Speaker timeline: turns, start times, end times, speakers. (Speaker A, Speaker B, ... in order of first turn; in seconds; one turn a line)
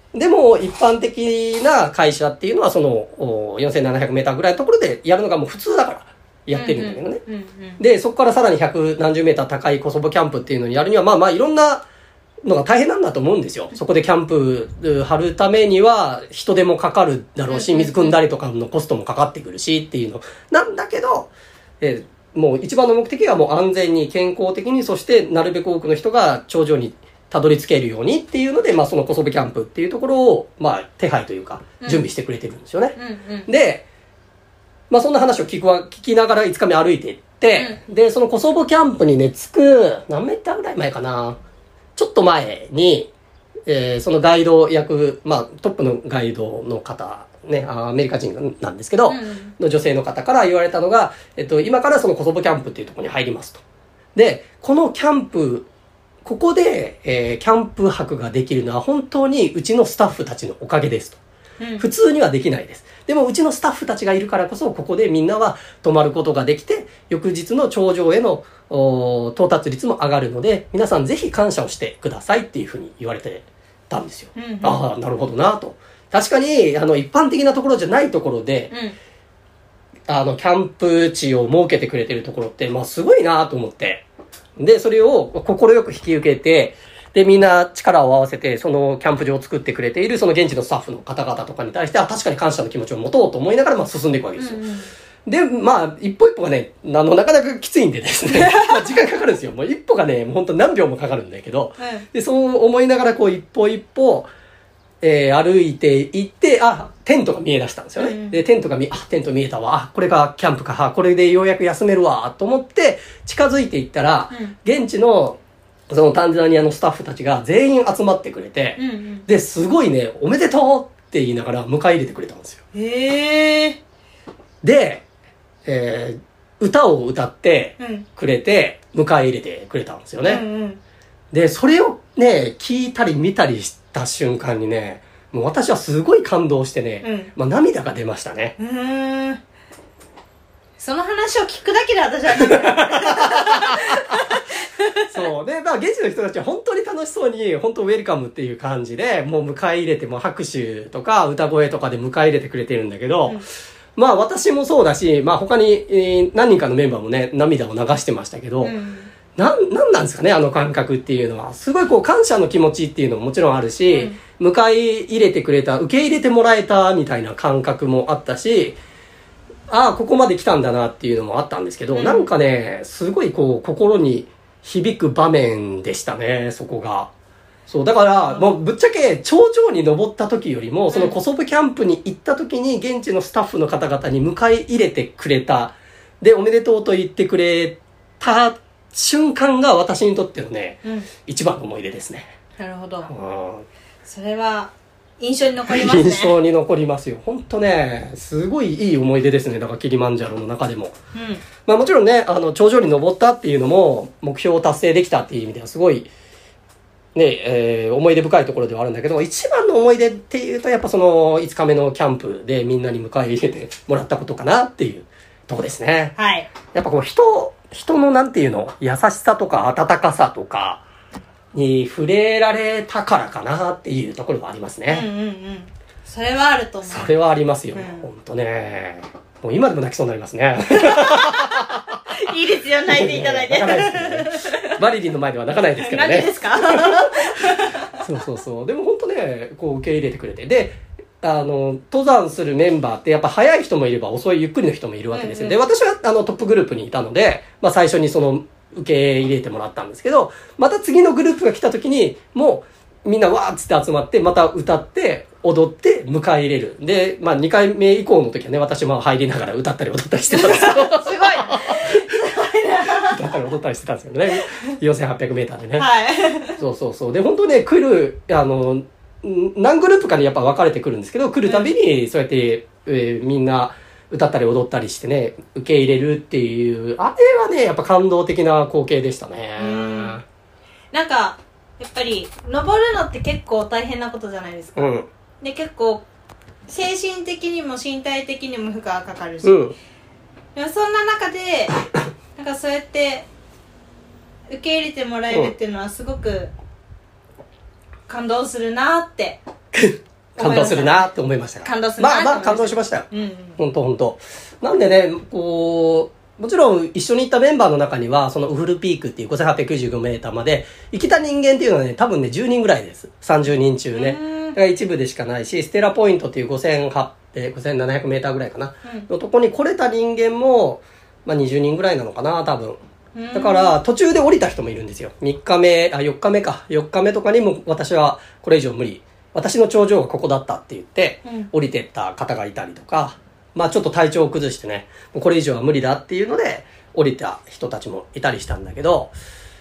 Speaker A: 0.1-7.2
Speaker B: 6.5-7.8
Speaker A: 7.8-11.8
Speaker A: 12.4-33.8
Speaker B: 17.5-18.1
Speaker B: 31.8-32.0
Speaker B: 33.0-33.5
Speaker A: 34.9-41.4
Speaker B: 37.5-37.8
Speaker A: 42.0-43.1
Speaker A: 43.7-53.6
Speaker B: 49.0-49.5
Speaker A: 54.1-55.7
Speaker A: 56.2-61.2
Speaker B: 61.6-61.9
Speaker A: 61.8-78.7
Speaker B: 74.3-74.8
Speaker B: 78.7-79.0
Speaker A: 80.1-84.0
Speaker A: 84.6-94.6
Speaker B: 94.3-94.9
Speaker A: 95.2-104.3
Speaker B: 98.3-98.8
Speaker B: 101.8-102.0
Speaker A: 105.0-115.4
Speaker B: 108.0-108.4
Speaker A: 115.9-122.6
Speaker B: 118.8-119.2
Speaker B: 122.7-123.8
Speaker A: 124.6-125.0
Speaker A: 125.6-130.4
Speaker B: 127.8-128.0
Speaker B: 130.2-130.8
Speaker A: 131.3-138.6
Speaker B: 137.0-137.3
Speaker B: 138.6-139.4
Speaker B: 140.8-145.2
Speaker A: 142.4-143.8
Speaker A: 145.1-153.4
Speaker A: 153.9-158.7
Speaker B: 158.6-159.1
Speaker A: 159.3-168.8
Speaker B: 163.9-164.2
Speaker A: 169.7-177.1
Speaker B: 171.9-172.3
Speaker A: 177.7-192.3
Speaker B: 180.9-181.2
Speaker B: 192.6-193.1
Speaker A: 193.1-193.7
Speaker B: 194.1-196.3
Speaker A: 195.7-200.9
Speaker B: 201.1-201.4
Speaker A: 201.6-206.1
Speaker A: 207.1-216.2
Speaker B: 216.2-216.5
Speaker A: 216.7-220.8
Speaker A: 221.5-225.1
Speaker B: 224.9-227.1
Speaker A: 226.9-231.8
Speaker B: 227.7-228.1
Speaker B: 230.7-231.6
Speaker B: 232.1-234.8
Speaker A: 232.9-261.9
Speaker B: 235.8-237.9
Speaker B: 245.1-245.6
Speaker B: 260.3-263.4
Speaker A: 262.9-265.9
Speaker B: 264.3-264.6
Speaker B: 265.8-266.6
Speaker A: 266.6-280.2
Speaker B: 271.4-271.7
Speaker B: 279.6-280.2
Speaker B: 280.9-284.9
Speaker A: 284.7-285.1
Speaker B: 285.4-286.0
Speaker B: 286.7-289.6
Speaker A: 289.4-289.7
Speaker B: 290.5-291.8
Speaker B: 292.4-293.2
Speaker B: 294.5-296.5
Speaker B: 298.1-299.4
Speaker A: 299.7-322.8
Speaker B: 300.4-301.1
Speaker B: 301.6-303.6
Speaker B: 313.9-314.6
Speaker B: 323.1-323.8
Speaker A: 323.3-339.1
Speaker B: 331.2-331.5